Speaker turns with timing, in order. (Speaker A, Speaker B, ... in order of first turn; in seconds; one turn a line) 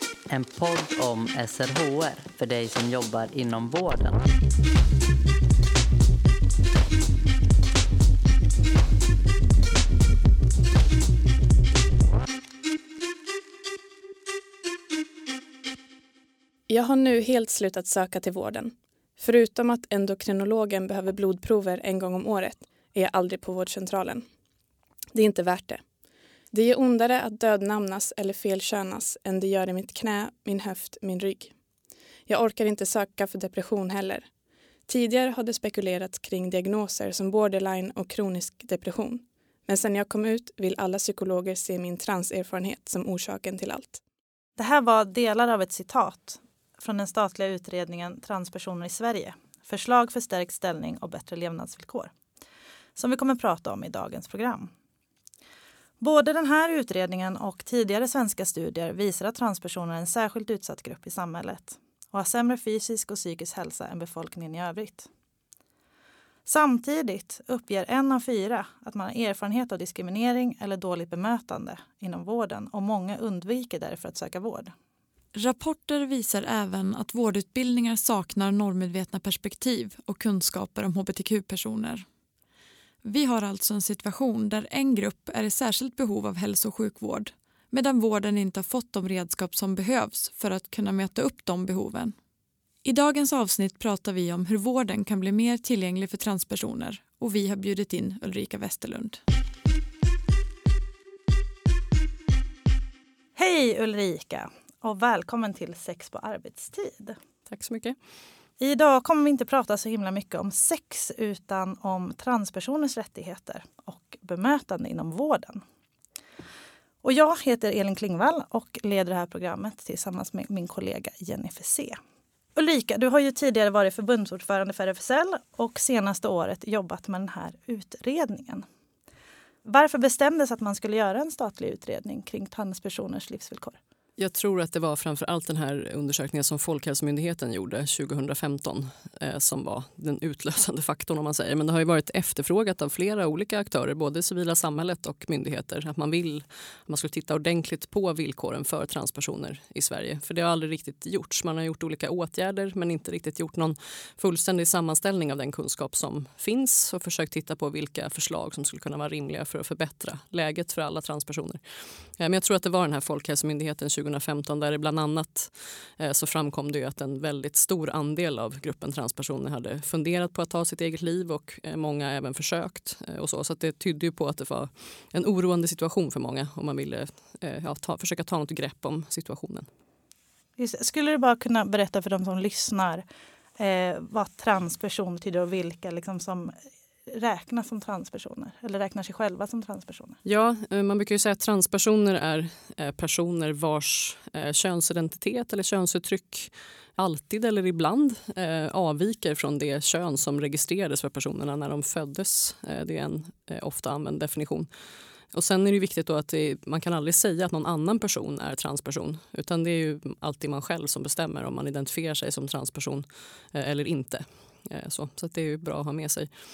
Speaker A: 0.3-4.3
Speaker B: 16.7-24.3
Speaker B: 25.1-25.8
Speaker B: 26.5-31.5
Speaker B: 32.3-34.3
Speaker B: 34.9-44.0
Speaker C: 44.6-52.1
Speaker C: 53.0-54.7
Speaker C: 56.0-65.1
Speaker C: 66.5-74.7
Speaker D: 75.3-82.0
Speaker D: 83.0-92.1
Speaker D: 92.8-99.2
Speaker C: 103.3-107.2
Speaker E: 107.5-108.0
Speaker C: 108.6-115.6
Speaker C: 117.0-122.0
Speaker C: 122.5-128.6
Speaker C: 129.6-133.8
Speaker E: 134.2-161.6
Speaker E: 162.2-179.7
Speaker C: 180.6-183.0
Speaker C: 183.6-186.6
Speaker C: 187.1-190.2
Speaker E: 190.2-204.7
Speaker E: 205.3-216.3